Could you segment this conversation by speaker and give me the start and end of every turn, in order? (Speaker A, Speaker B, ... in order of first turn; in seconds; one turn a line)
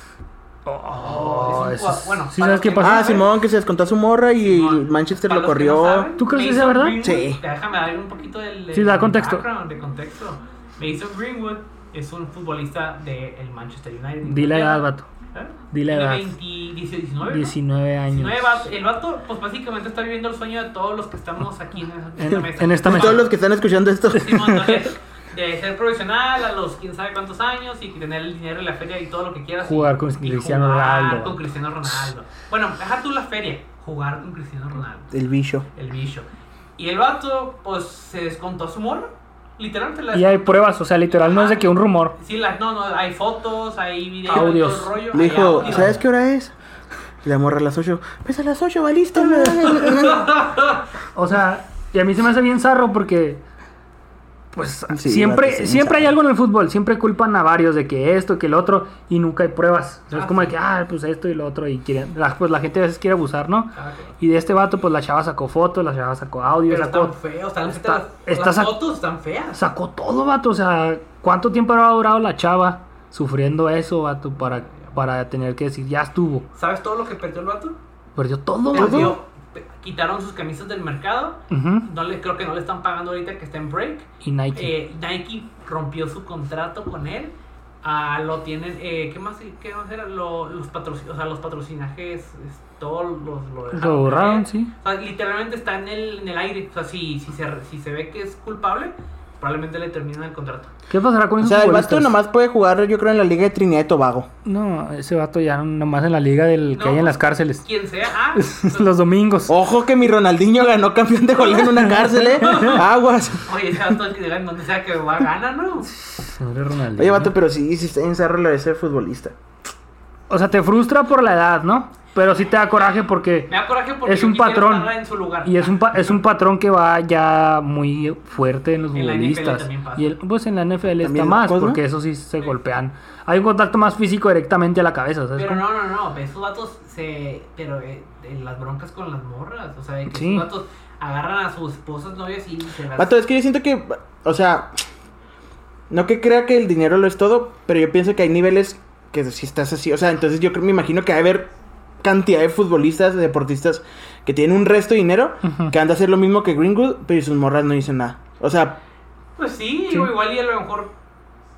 Speaker A: 0.7-3.1
Speaker B: 1.0-3.3
Speaker C: 2.8-6.1
Speaker B: 4.4-17.5
Speaker A: 6.2-7.0
Speaker C: 7.0-7.4
Speaker A: 8.7-9.4
Speaker A: 14.2-15.1
Speaker A: 15.7-16.3
Speaker A: 17.2-18.6
Speaker B: 18.1-23.3
Speaker A: 22.2-23.2
Speaker C: 22.8-24.5
Speaker B: 24.1-35.1
Speaker A: 24.3-24.9
Speaker A: 29.6-31.4
Speaker C: 35.1-35.7
Speaker B: 35.8-46.0
Speaker A: 40.1-42.1
Speaker A: 44.3-45.0
Speaker C: 45.1-46.5
Speaker A: 45.6-46.0
Speaker C: 47.2-50.3
Speaker B: 49.3-50.8
Speaker A: 51.1-53.4
Speaker A: 54.5-67.2
Speaker C: 54.9-56.1
Speaker B: 60.1-60.5
Speaker B: 63.7-64.2
Speaker B: 66.7-69.6
Speaker A: 67.7-68.8
Speaker A: 69.5-76.5
Speaker B: 74.7-74.9
Speaker B: 76.5-77.8
Speaker A: 78.2-79.2
Speaker B: 78.7-100.7
Speaker C: 78.7-79.2
Speaker A: 81.5-81.9
Speaker A: 84.2-84.7
Speaker A: 93.7-94.7
Speaker A: 100.9-102.1
Speaker C: 101.4-104.3
Speaker A: 104.4-107.6
Speaker B: 106.7-108.9
Speaker A: 108.3-109.5
Speaker C: 109.5-113.5
Speaker A: 111.8-112.8
Speaker B: 112.4-112.8
Speaker B: 113.4-115.9
Speaker A: 115.9-117.3
Speaker C: 117.0-119.3
Speaker A: 120.3-123.5
Speaker B: 123.5-126.2
Speaker A: 124.0-124.9
Speaker A: 125.4-135.6
Speaker B: 128.9-130.2
Speaker C: 131.0-131.8
Speaker B: 135.3-143.2
Speaker A: 140.1-140.4
Speaker C: 142.9-144.8
Speaker C: 145.9-158.8
Speaker A: 155.4-155.7
Speaker B: 159.4-160.9